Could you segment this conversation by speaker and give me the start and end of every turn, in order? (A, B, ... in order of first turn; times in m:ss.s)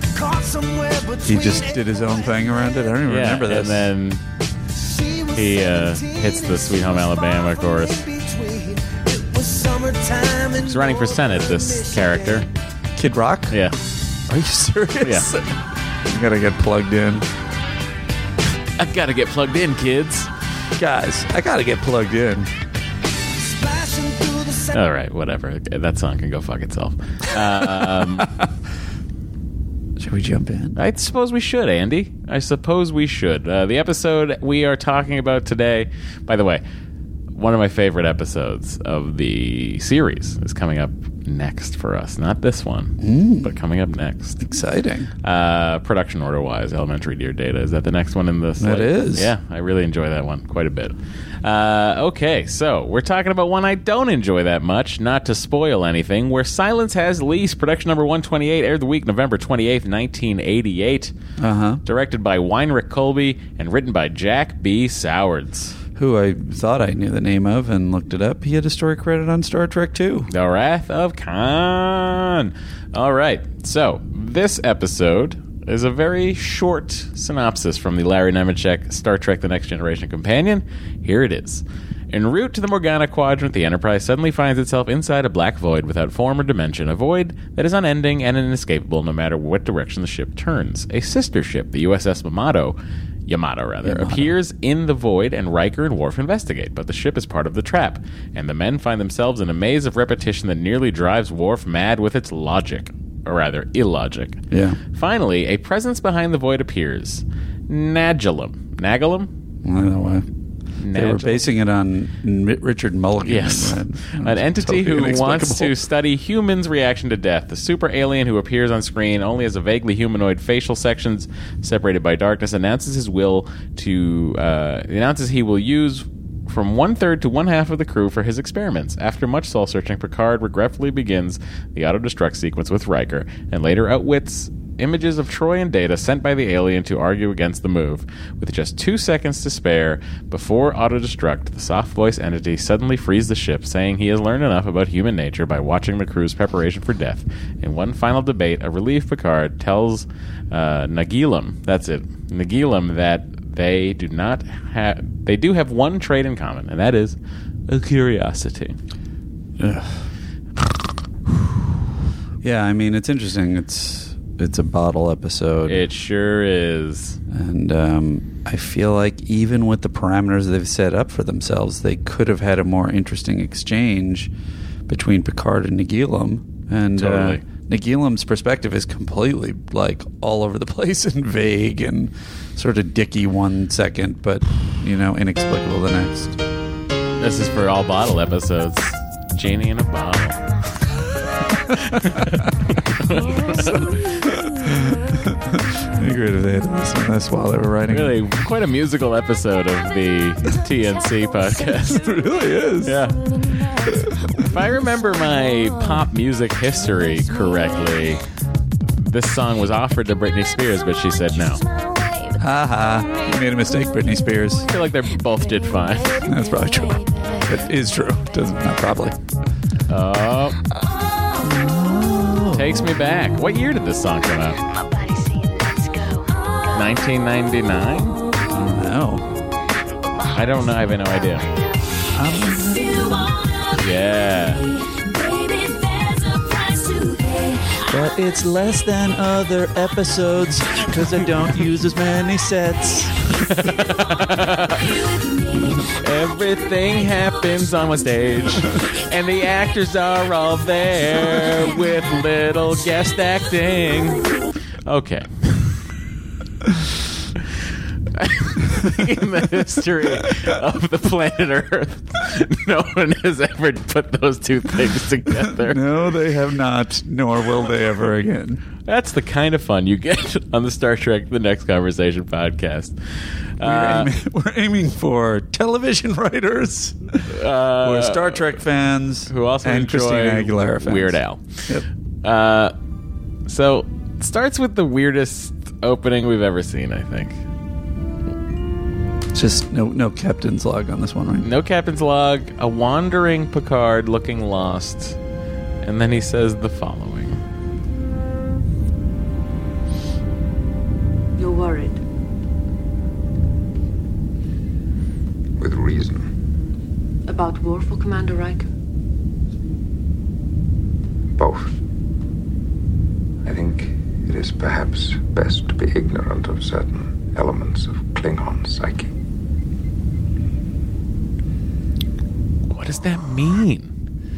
0:00.1-0:02.7 A
0:01.3-0:03.9 B
0:03.1-0:04.2 C
0:04.7-0:12.5 A
0:05.4-0:08.0 C
0:10.6-0:12.5 C
0:13.0-0:13.6 B
0:13.5-0:13.8 C
0:14.3-0:15.5 B
0:16.1-0:17.3 B
0:18.8-0:20.3 C
0:20.8-0:22.5 B
0:23.3-0:24.8 A
0:24.7-0:28.3 C
0:27.8-0:28.4 B
0:30.0-0:30.8 B
0:30.8-0:36.6 C
0:37.4-0:44.4 C
0:43.0-0:43.6 B
0:44.4-0:45.1 B
0:45.2-1:01.1 C
0:48.6-0:49.3 B
1:01.4-1:01.8 B
1:01.8-1:05.8 C
1:06.0-1:10.3 B
1:10.3-1:32.8 C
1:33.3-1:44.4 C
1:33.8-1:34.4 B
1:44.5-1:44.8 B
1:44.9-1:49.3 C
1:49.6-1:50.3 B
1:50.8-1:51.5 C
1:50.9-1:55.8 B
1:53.2-2:37.2 C
2:37.7-2:38.8 C
2:39.6-2:40.0 B
2:42.4-2:45.8 B
2:45.7-2:47.2 C
2:47.3-2:54.3 B
2:54.9-3:06.4 B
2:57.0-2:57.4 C
3:07.2-3:10.4 C
3:11.9-3:14.2 C
3:14.2-3:18.2 B
3:17.9-3:22.1 C
3:22.0-3:23.0 B
3:22.8-3:23.2 C
3:24.3-3:28.2 C
3:29.0-3:31.6 C
3:32.4-3:34.7 B
3:34.7-3:36.2 C
3:36.2-3:39.2 B
3:39.9-3:40.6 C
3:41.4-3:42.9 B
3:42.5-3:44.6 C
3:45.2-3:46.0 A
3:46.7-3:48.2 C
3:48.5-3:49.3 B
3:50.3-3:51.5 C
3:52.1-3:53.3 B
3:53.8-3:54.6 C
3:55.0-3:57.8 A
3:57.9-4:03.2 B
4:03.4-4:04.9 C
4:05.7-4:14.3 C
4:14.8-4:15.8 C
4:18.2-4:25.8 C
4:25.4-4:28.6 B
4:28.8-4:33.0 C
4:33.6-4:34.1 C
4:33.6-4:37.2 B
4:37.3-4:38.6 C
4:37.8-4:41.8 B
4:39.3-4:41.6 C
4:42.2-4:42.7 C
4:43.5-4:47.4 C
4:49.3-4:51.5 B
4:51.4-4:55.2 C
4:55.8-4:57.4 C
5:01.4-5:02.0 D
5:05.6-5:06.3 E
5:07.3-5:08.7 D
5:11.4-5:11.8 E
5:13.4-5:19.1 E
5:22.7-5:23.9 C